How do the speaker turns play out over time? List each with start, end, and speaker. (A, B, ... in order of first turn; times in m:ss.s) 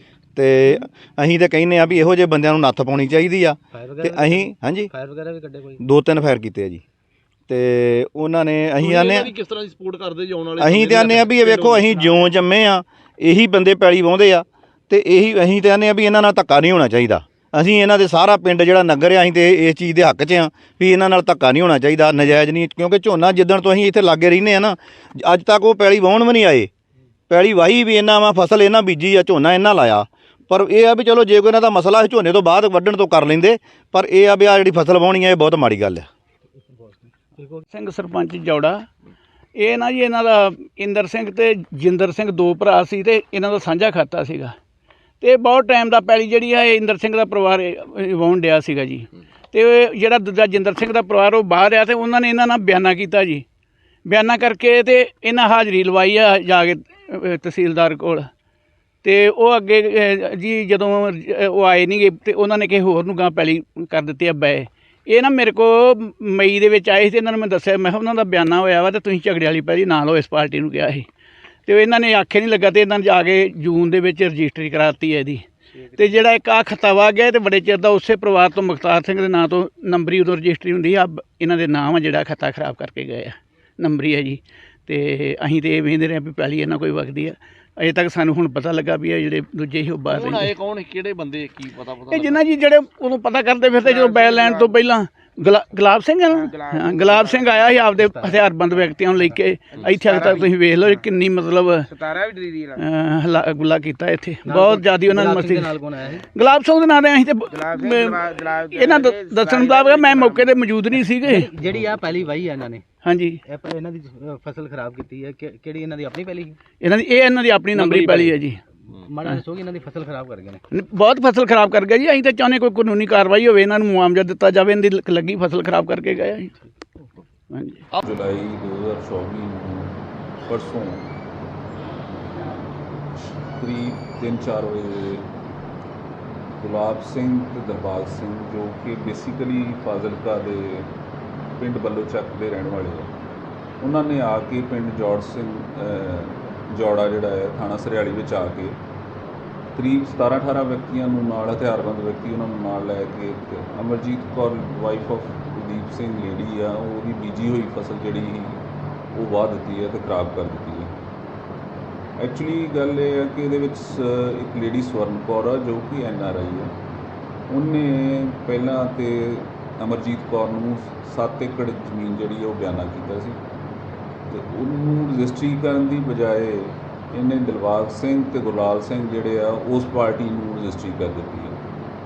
0:00.4-0:04.9 A
0:03.7-0:05.8 B
0:05.8-0:06.8 A
0:07.5-0:09.3 A
0:08.8-0:12.3 C
0:10.6-0:26.7 A
0:27.3-0:36.0 A
0:36.8-0:37.6 B
0:37.7-0:38.8 D
0:39.6-0:44.5 D
0:45.2-0:53.4 D
0:54.1-0:58.3 D
0:59.0-1:11.1 D
1:11.7-1:15.4 D
1:16.0-1:30.5 D
1:30.1-1:32.4 C
1:32.1-1:41.8 D
1:33.8-1:34.7 E
1:36.3-1:37.9 E
1:37.9-1:38.5 B
1:39.1-1:39.4 B
1:39.7-1:40.0 C
1:39.9-1:41.0 E
1:41.8-1:42.8 E
1:42.8-1:45.8 D
1:44.4-1:46.2 B
1:46.3-1:51.5 D
1:47.5-1:50.6 E
1:50.9-1:52.8 B
1:53.0-1:53.4 D
1:53.4-1:56.6 B
1:56.8-1:58.6 D
1:57.7-1:58.4 C
1:59.0-2:00.6 B
2:00.7-2:06.5 D
2:07.5-2:07.8 D
2:08.0-2:11.1 F
2:13.2-2:15.3 F
2:16.6-2:20.9 F
2:21.5-2:23.1 F
2:23.8-2:28.8 F
2:29.7-2:40.9 F
2:42.2-2:46.7 F
2:47.5-2:53.4 F
2:54.3-3:01.6 F